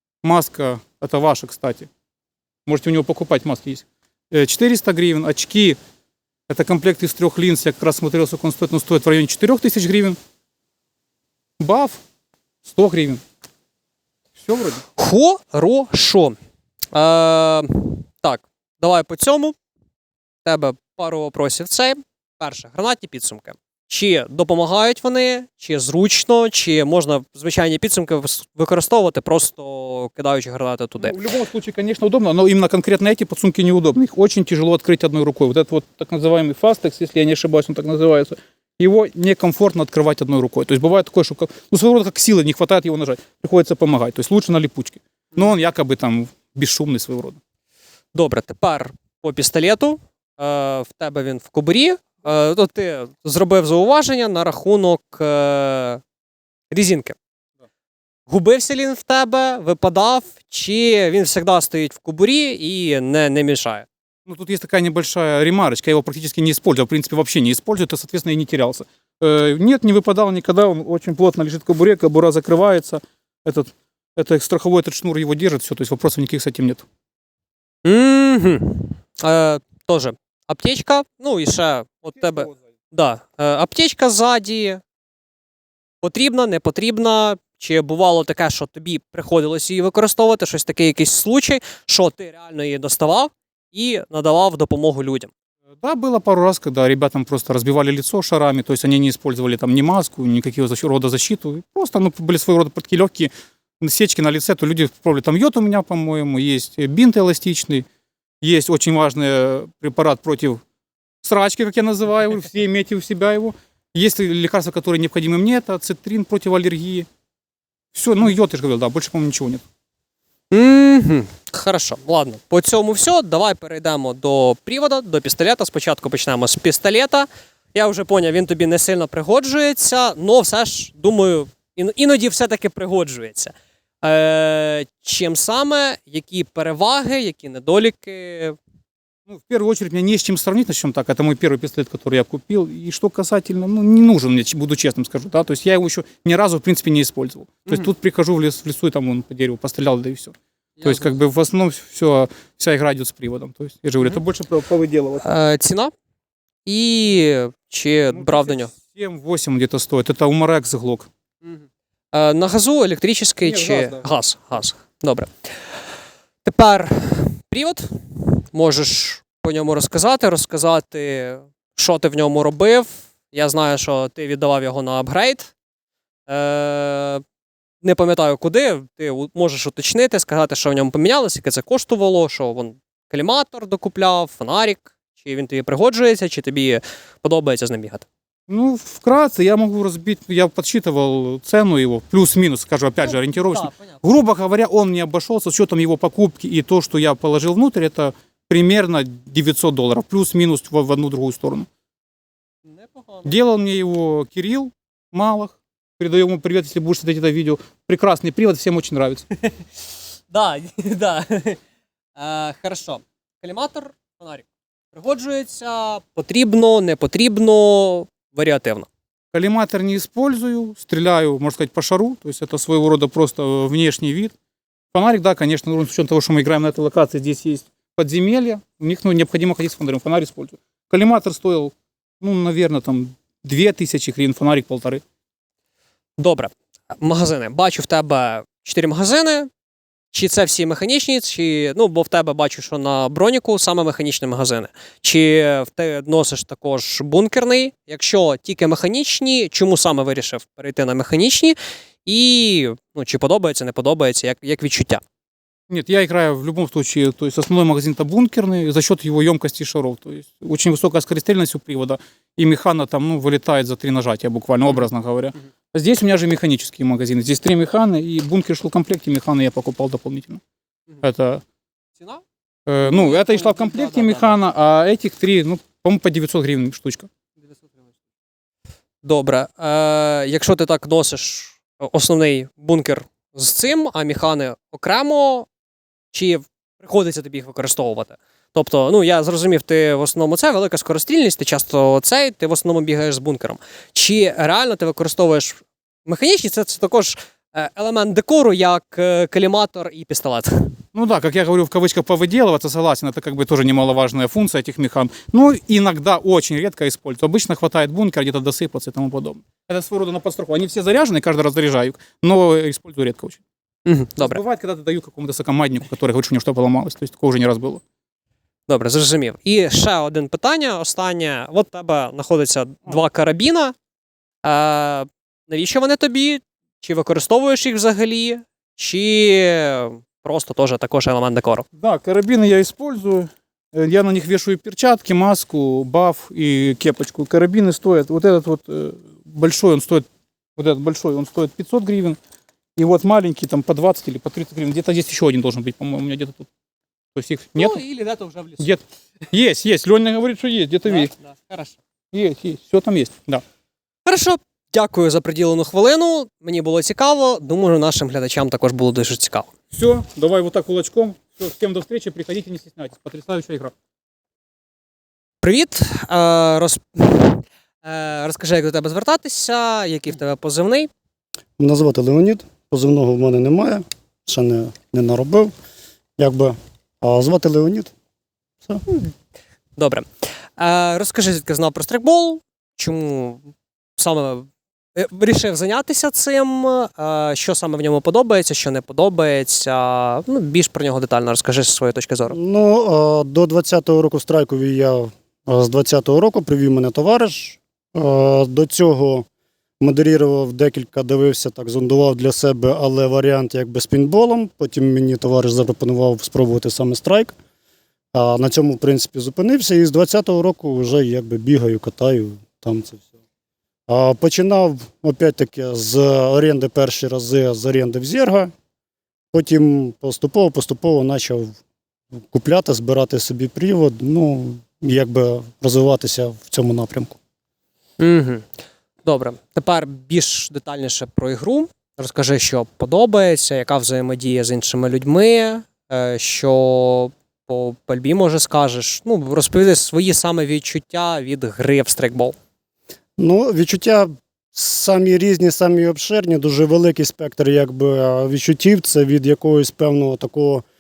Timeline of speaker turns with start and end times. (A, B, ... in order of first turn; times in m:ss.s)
0:00.2-0:01.9 A
0:02.7-0:05.8 A
0:06.5-0:10.2 A
0:11.6-0:12.0 A
0:12.6-0:13.2 A
0:14.4-0:14.8 A
0:15.0-0:16.4 B
0:16.9-0:19.6 B
0:20.4-0:31.2 B
0:31.0-0:47.4 A
0:48.1-0:56.0 B
0:56.7-0:57.2 B
0:58.3-1:03.9 B
1:04.3-1:16.8 A
1:17.8-1:24.8 B
1:22.2-1:22.5 A
1:26.0-1:35.3 B
1:35.8-1:47.8 A
1:48.4-1:50.6 A
1:51.2-1:57.1 A
1:57.9-1:59.6 A
2:00.5-2:18.6 B
2:19.3-2:35.3 A
2:30.8-2:31.2 B
2:35.2-2:35.9 B
2:36.7-2:38.7 B
2:38.1-2:41.1 A
2:41.4-2:45.7 B
2:43.4-2:44.1 A
2:46.4-2:55.5 B
2:56.3-2:57.2 B
2:57.8-3:08.1 B
3:08.5-3:21.7 A
3:13.1-3:14.0 B
3:22.7-3:23.3 B
3:23.2-3:29.3 A
3:30.3-3:31.6 B
3:32.2-3:38.9 B
3:39.3-3:44.3 A
3:44.9-3:55.0 A
3:56.2-3:59.5 B
4:00.1-4:15.0 B
4:15.7-4:30.4 A
4:31.0-4:31.4 A
4:32.7-4:37.1 A
4:32.8-4:34.4 B
4:39.0-4:45.5 B
4:46.1-5:00.8 B
5:00.9-5:13.4 A
5:13.8-5:14.4 B
5:14.2-5:17.8 A
5:18.7-5:23.8 B
5:24.4-5:31.7 B
5:31.8-5:42.2 A
5:42.8-5:46.5 A
5:47.2-5:47.8 A
5:47.6-5:48.6 B
5:48.6-5:51.1 A
5:50.9-5:51.7 B
5:52.1-5:53.4 A
5:54.1-5:59.5 B
5:59.7-6:03.7 A
6:05.4-6:10.9 B
6:11.6-6:15.5 C
6:16.2-6:17.9 C
6:18.9-6:19.1 B
6:19.8-6:20.1 B
6:20.6-6:32.4 B
6:32.3-6:39.3 C
6:39.8-6:47.3 C
6:48.1-6:53.0 C
6:53.9-6:58.5 C
6:59.3-7:01.6 C
7:02.2-7:07.2 C
7:08.0-7:08.5 B
7:09.0-7:22.4 B
7:23.2-7:30.6 C